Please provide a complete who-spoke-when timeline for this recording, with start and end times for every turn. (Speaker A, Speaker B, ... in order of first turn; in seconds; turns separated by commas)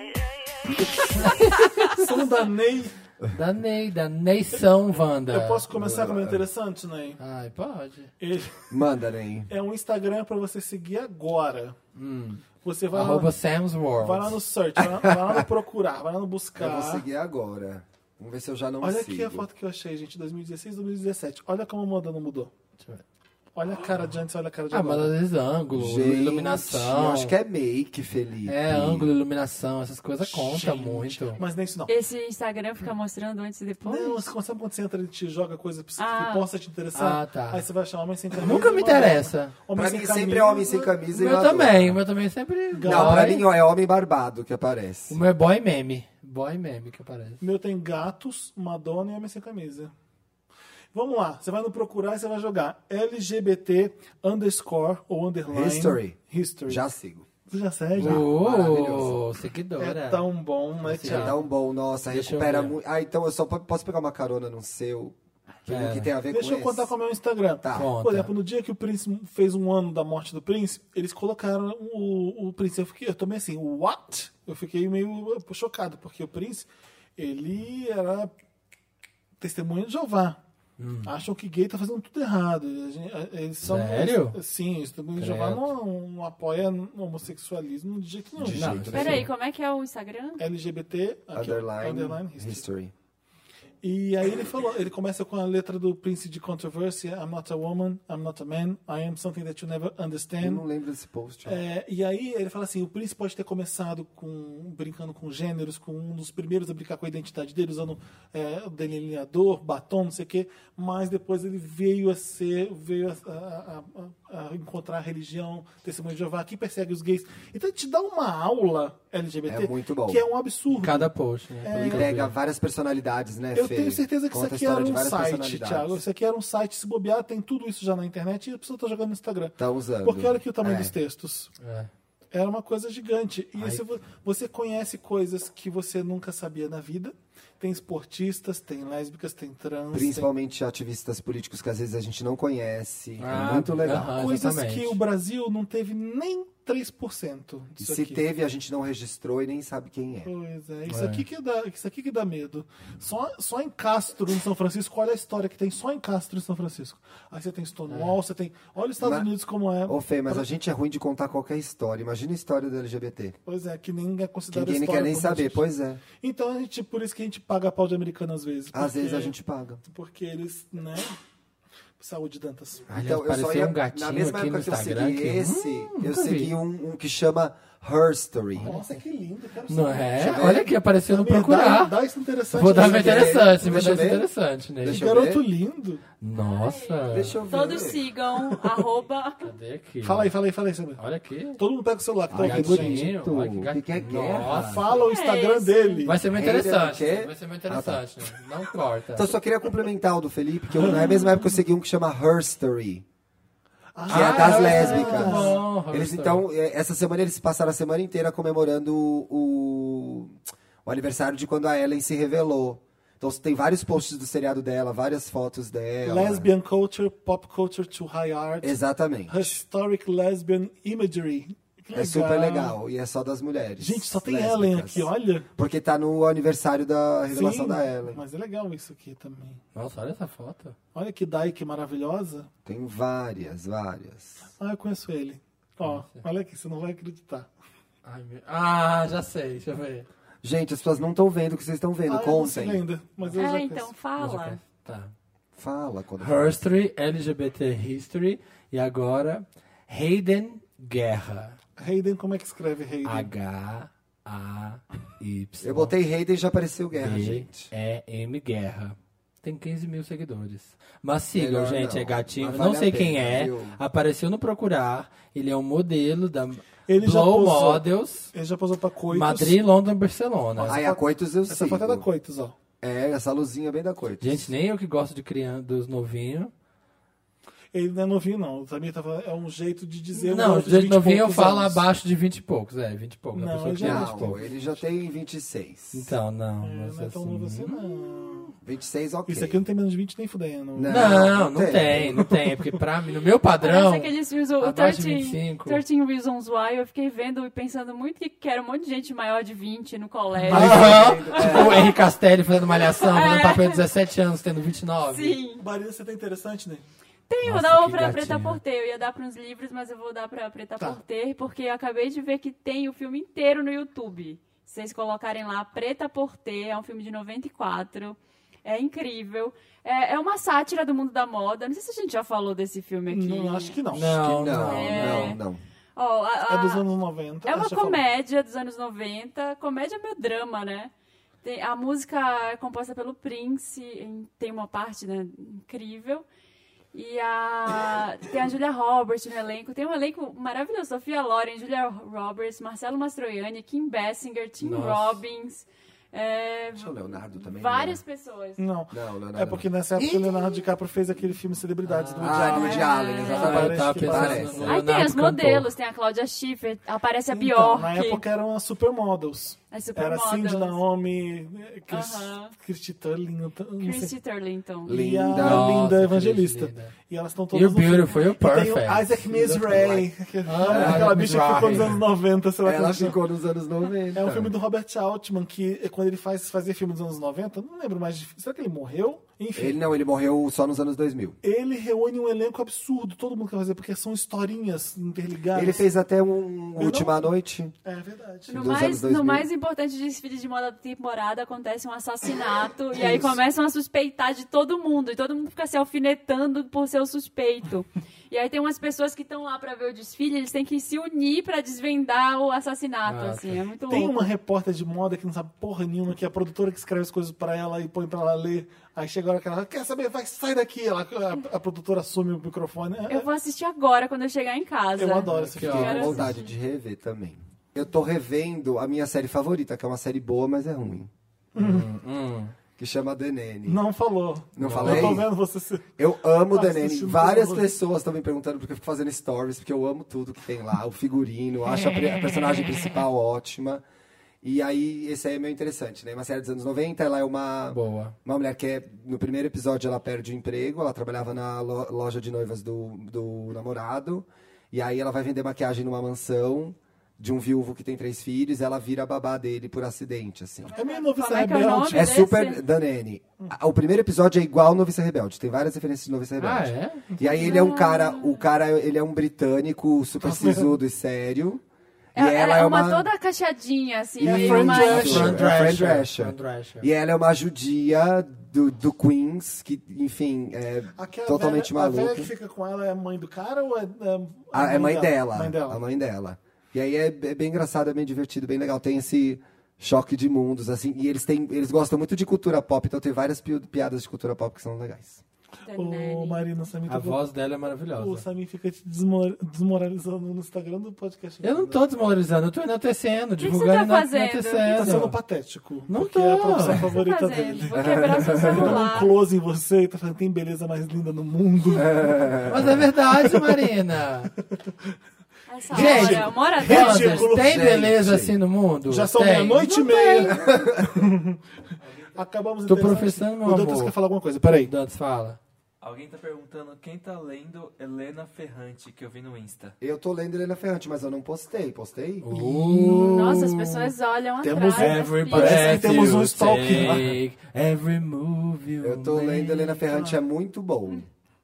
Speaker A: 0.9-2.0, Speaker B: 1.9-2.9, Speaker A: 3.3-5.7, Speaker B: 5.3-7.2, Speaker C: 5.7-6.4, Speaker A: 7.2-8.1, Speaker B: 8.2-8.7, Speaker C: 8.7-9.5, Speaker B: 9.5-11.8, Speaker A: 11.9-14.4, Speaker B: 12.6-13.3, Speaker B: 14.0-17.0, Speaker C: 14.8-15.4, Speaker C: 16.6-19.5, Speaker B: 18.8-22.5, Speaker B: 23.6-25.1, Speaker A: 24.7-27.3, Speaker C: 25.7-29.1, Speaker A: 28.4-31.4, Speaker B: 30.2-31.9, Speaker D: 31.9-34.3, Speaker B: 33.8-41.0, Speaker D: 36.0-36.5, Speaker A: 36.9-37.6, Speaker A: 38.4-39.6, Speaker C: 39.7-42.0, Speaker A: 41.1-43.4, Speaker B: 42.7-43.4, Speaker C: 42.8-45.2, Speaker A: 45.1-47.4, Speaker B: 47.4-49.9, Speaker B: 50.9-56.8, Speaker C: 55.5-57.3, Speaker B: 57.5-58.3, Speaker C: 58.0-59.2, Speaker A: 58.0-60.3, Speaker B: 59.8-61.4, Speaker A: 60.8-61.4, Speaker C: 61.0-65.1, Speaker A: 62.1-62.8, Speaker A: 65.7-66.1, Speaker C: 65.7-66.9, Speaker B: 66.3-78.3, Speaker C: 67.6-67.9, Speaker A: 67.7-68.3, Speaker B: 79.4-80.4, Speaker A: 80.8-81.1, Speaker B: 81.0-88.8, Speaker A: 83.6-84.4, Speaker A: 85.2-85.7, Speaker C: 88.4-89.3, Speaker A: 88.5-89.2, Speaker D: 88.9-90.4, Speaker B: 90.4-92.6, Speaker C: 91.3-92.9, Speaker B: 93.8-100.6, Speaker C: 100.4-101.6, Speaker B: 101.4-121.1, Speaker C: 119.5-120.2, Speaker A: 120.7-122.3, Speaker B: 121.6-122.1, Speaker C: 121.8-126.0, Speaker B: 123.5-131.5, Speaker C: 129.6-130.9, Speaker A: 131.6-131.9, Speaker B: 132.3-140.3, Speaker C: 139.9-144.1, Speaker A: 143.2-145.0, Speaker B: 144.0-148.2, Speaker C: 147.8-150.3, Speaker B: 150.2-160.4, Speaker A: 150.9-151.2, Speaker A: 157.9-158.2, Speaker C: 159.0-159.3, Speaker C: 159.8-163.3, Speaker B: 163.4-165.6, Speaker C: 164.5-166.0, Speaker B: 166.2-171.2, Speaker C: 168.7-169.8, Speaker B: 172.0-172.9, Speaker C: 172.9-178.7, Speaker A: 172.9-176.5, Speaker A: 178.6-179.0, Speaker B: 178.6-180.6, Speaker A: 179.7-181.9, Speaker C: 180.2-180.7, Speaker B: 181.1-183.9, Speaker A: 182.5-185.0, Speaker C: 182.7-184.3, Speaker C: 184.8-185.4, Speaker B: 184.8-186.0, Speaker A: 186.2-187.4, Speaker D: 186.3-189.5, Speaker C: 187.1-188.0, Speaker A: 189.4-190.3, Speaker B: 190.0-191.0, Speaker A: 191.0-191.6, Speaker B: 191.6-193.1, Speaker C: 192.3-194.9, Speaker A: 192.3-194.9, Speaker B: 194.4-196.2, Speaker D: 195.0-196.1, Speaker A: 196.0-199.3, Speaker C: 196.3-198.1, Speaker C: 199.1-203.0, Speaker B: 200.8-201.2, Speaker B: 203.9-205.6, Speaker A: 204.1-206.4, Speaker C: 204.1-216.5, Speaker B: 216.0-222.7, Speaker C: 218.6-219.5, Speaker C: 221.9-228.2, Speaker B: 223.8-225.5, Speaker B: 227.3-229.6, Speaker A: 229.7-230.7, Speaker B: 230.9-232.5, Speaker C: 232.6-234.4, Speaker B: 234.6-237.5, Speaker A: 235.8-236.2, Speaker A: 238.0-240.1, Speaker C: 240.4-242.8, Speaker B: 242.1-243.9, Speaker D: 243.3-244.6, Speaker A: 244.2-245.1, Speaker C: 245.6-246.5, Speaker A: 246.2-251.6, Speaker B: 251.8-253.3, Speaker A: 253.0-255.9, Speaker C: 255.6-257.7, Speaker A: 256.9-268.3, Speaker C: 261.3-263.8, Speaker B: 266.9-269.6, Speaker A: 269.1-270.8, Speaker B: 270.6-272.5, Speaker C: 270.6-272.1, Speaker C: 272.8-274.5, Speaker A: 274.2-276.5, Speaker B: 277.7-281.8, Speaker A: 280.1-284.4, Speaker B: 283.3-284.7, Speaker C: 283.8-286.1, Speaker A: 285.9-288.5, Speaker B: 286.6-288.5, Speaker C: 288.6-289.6, Speaker B: 289.3-291.3, Speaker C: 290.7-292.2, Speaker A: 290.9-295.8, Speaker B: 292.0-292.3, Speaker D: 293.6-301.6, Speaker A: 300.4-305.4, Speaker B: 300.5-301.2, Speaker C: 300.5-301.9, Speaker D: 302.9-303.8, Speaker D: 305.1-305.6, Speaker B: 305.6-306.9, Speaker D: 307.3-323.8, Speaker A: 307.4-308.6, Speaker B: 323.1-324.7, Speaker A: 323.9-325.3, Speaker C: 324.2-325.6, Speaker D: 324.7-325.4, Speaker D: 325.9-326.8, Speaker B: 326.5-328.0, Speaker D: 327.4-330.9, Speaker D: 331.4-336.2, Speaker D: 336.9-348.6, Speaker A: 344.6-345.2, Speaker C: 346.8-348.0, Speaker B: 348.6-354.7, Speaker C: 348.9-350.4, Speaker A: 351.8-352.5, Speaker C: 352.2-354.8, Speaker D: 352.4-353.6, Speaker A: 353.2-355.7, Speaker D: 354.6-358.2, Speaker B: 357.3-364.1, Speaker D: 359.7-360.8, Speaker D: 361.9-362.5, Speaker D: 363.8-365.0, Speaker C: 364.9-365.8, Speaker B: 364.9-373.2, Speaker A: 365.3-366.9, Speaker A: 367.5-369.6, Speaker C: 369.4-370.1, Speaker A: 370.4-372.0, Speaker C: 370.6-371.2, Speaker C: 372.6-374.5, Speaker B: 374.1-379.8, Speaker C: 379.5-381.4, Speaker B: 381.4-385.9, Speaker C: 385.5-387.7, Speaker B: 386.8-387.3, Speaker B: 387.8-388.8, Speaker D: 388.5-404.3, Speaker C: 388.5-389.5, Speaker B: 392.9-393.4, Speaker A: 403.1-403.6, Speaker B: 403.9-413.3, Speaker D: 413.1-416.5, Speaker B: 415.0-416.3, Speaker A: 415.2-416.3, Speaker C: 415.6-421.1, Speaker B: 421.5-421.9, Speaker A: 421.6-422.5, Speaker C: 422.8-423.8, Speaker B: 423.6-425.9, Speaker C: 424.5-425.3, Speaker A: 424.6-425.2, Speaker C: 426.0-433.8, Speaker B: 426.5-427.7, Speaker A: 431.9-432.7, Speaker C: 434.4-450.7, Speaker A: 437.7-438.1, Speaker D: 450.7-452.6, Speaker B: 450.7-452.2, Speaker C: 451.9-461.6, Speaker A: 456.4-457.1, Speaker D: 457.3-458.4, Speaker B: 460.2-460.7, Speaker C: 462.1-463.1, Speaker D: 462.1-465.2, Speaker B: 464.2-465.4, Speaker C: 464.2-472.3, Speaker A: 464.3-466.9, Speaker B: 471.0-475.8, Speaker C: 474.5-485.2, Speaker D: 485.6-486.4, Speaker B: 485.7-487.2, Speaker A: 486.9-488.2, Speaker B: 487.9-491.8, Speaker A: 491.4-495.2, Speaker D: 493.4-495.1, Speaker B: 494.7-502.3, Speaker A: 495.9-496.9, Speaker D: 496.9-499.1, Speaker C: 497.7-498.9, Speaker C: 501.7-502.8, Speaker A: 502.4-504.3, Speaker D: 505.5-507.3, Speaker B: 505.7-507.6, Speaker A: 505.7-510.0, Speaker C: 507.4-508.4, Speaker B: 508.9-511.4, Speaker D: 509.6-510.3, Speaker C: 510.3-511.0, Speaker E: 511.8-512.2, Speaker B: 512.1-514.7, Speaker A: 512.6-513.9, Speaker A: 514.6-515.4, Speaker E: 515.8-519.7, Speaker C: 519.8-522.5, Speaker A: 522.2-523.9, Speaker B: 522.5-523.4, Speaker D: 523.0-526.0, Speaker B: 524.4-527.1, Speaker A: 524.8-529.8, Speaker C: 526.7-527.0, Speaker C: 528.8-531.0, Speaker B: 529.9-530.2